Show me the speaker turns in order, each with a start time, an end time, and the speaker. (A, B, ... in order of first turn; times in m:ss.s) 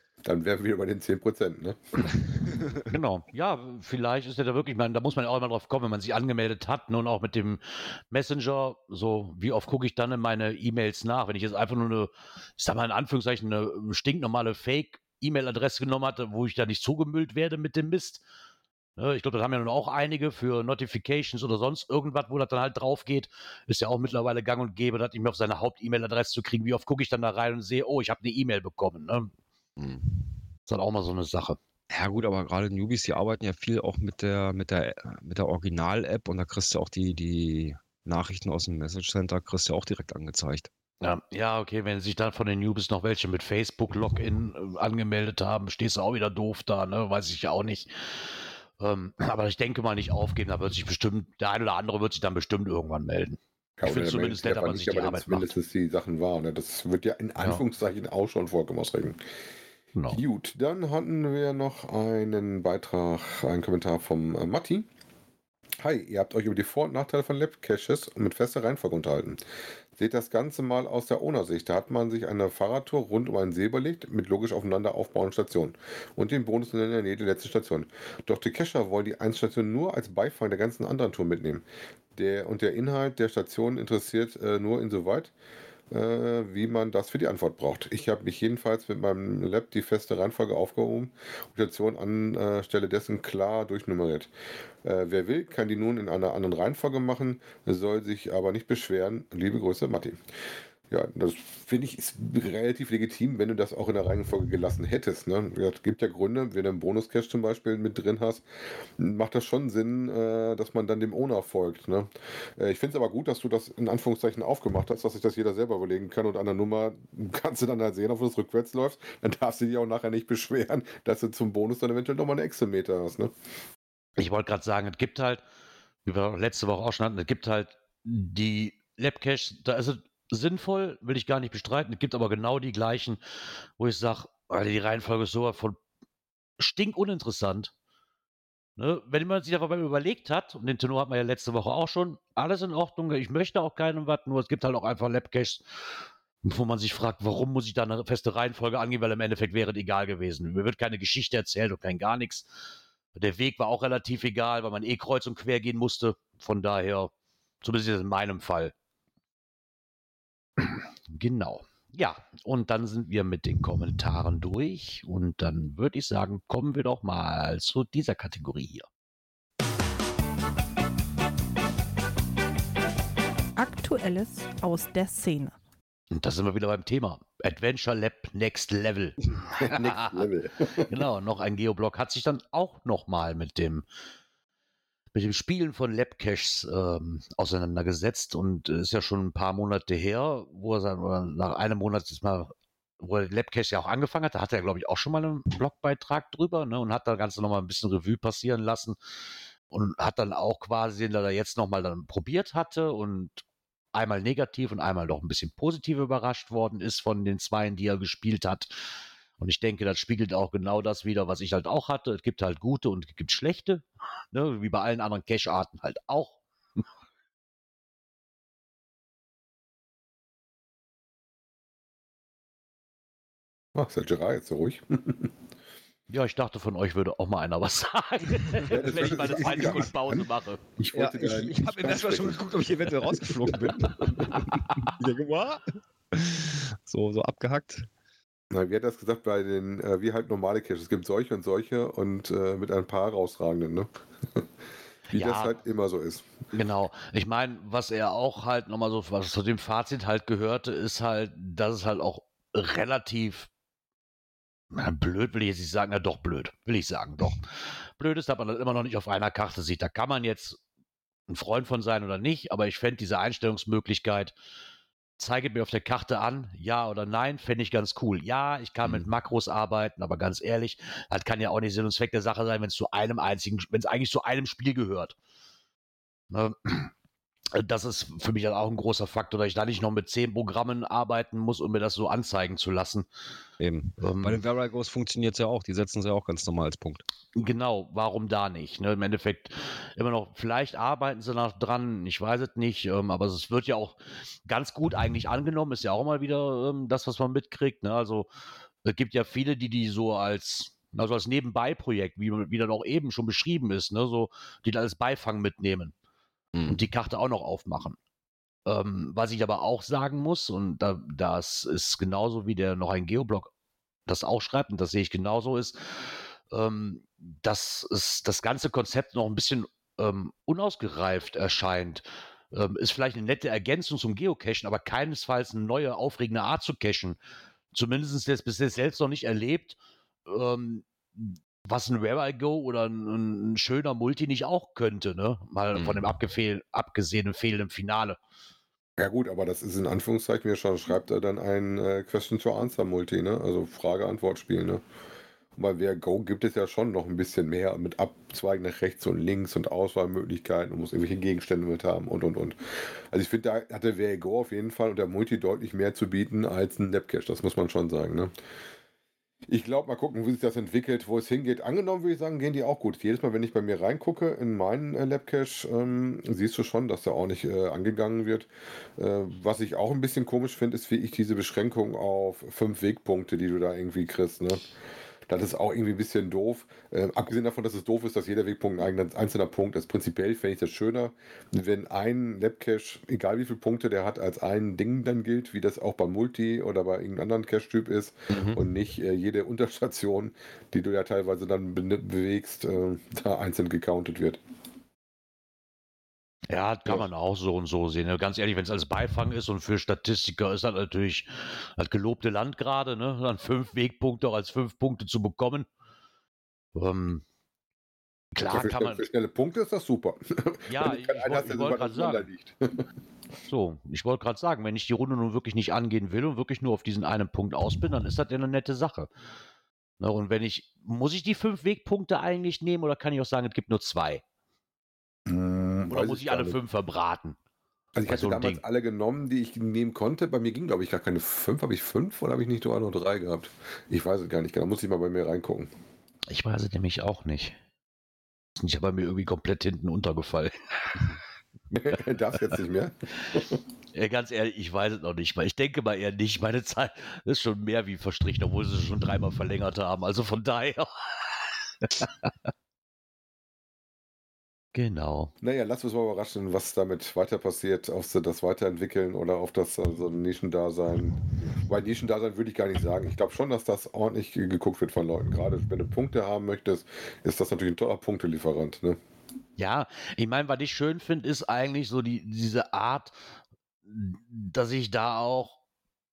0:00.2-0:02.2 A
0:02.3-0:02.9 B
0:02.9-0:18.2 C
0:19.0-0:29.3 C
0:29.8-0:30.3 B
0:30.7-0:31.6 C
0:31.9-0:40.7 B
0:41.0-0:55.5 C
0:53.8-0:59.2 A
1:00.0-1:00.2 C
1:00.1-1:04.9 A
1:05.8-1:09.4 A
1:10.0-1:21.6 A
1:22.2-1:25.3 A
1:25.9-1:34.3 A
1:34.8-1:40.2 A
1:40.9-1:48.4 A
1:49.0-2:03.3 A
2:04.2-2:05.4 C
2:06.0-2:13.2 C
2:13.8-2:15.8 C
2:16.6-2:17.7 C
2:18.8-2:25.6 C
2:26.4-2:32.5 C
2:33.2-2:37.1 C
2:37.6-2:38.7 C
2:40.6-2:48.9 C
2:53.6-2:55.6 D
2:56.1-3:00.3 C
2:59.5-3:01.0 A
3:00.8-3:03.8 C
3:05.1-3:19.0 C
3:19.7-3:28.7 C
3:29.4-3:36.4 C
3:43.8-3:45.3 A
3:46.1-3:50.6 C
3:48.6-3:54.4 A
3:50.9-3:57.9 B
3:54.3-3:54.9 C
3:58.5-4:04.4 A
4:05.1-4:05.6 C
4:05.1-4:06.3 A
4:06.5-4:13.5 C
4:14.7-4:20.6 C
4:21.3-4:24.3 C
4:25.2-4:35.2 C
4:36.3-4:36.9 C
4:37.5-4:43.1 C
4:43.6-4:47.0 B
4:44.0-4:44.4 C
4:47.4-4:58.3 C
4:58.8-5:05.9 C
5:06.5-5:06.8 B
5:06.7-5:08.0 C
5:08.7-5:13.5 C
5:14.1-5:27.2 C
5:27.7-5:38.2 C
5:35.8-5:36.0 B
5:39.0-5:44.8 A
5:45.6-5:52.6 A
5:53.1-5:58.3 A
5:59.5-6:08.5 A
6:09.0-6:14.7 A
6:15.3-6:34.4 A
6:28.3-6:28.6 B
6:36.5-6:45.7 C
6:46.8-6:47.2 C
6:48.4-6:49.1 C
6:48.5-6:52.8 A
6:50.7-6:52.3 C
6:53.5-6:59.1 C
7:00.0-7:04.2 C
7:05.3-7:06.6 A
7:05.9-7:07.4 C
7:08.0-7:15.7 A
7:08.1-7:08.6 C
7:16.3-7:17.6 C
7:18.6-7:21.1 C
7:21.7-7:23.6 A
7:23.9-7:32.3 C
7:34.8-7:35.3 C
7:35.4-7:49.0 A
7:49.6-7:53.2 C
7:53.9-7:55.6 C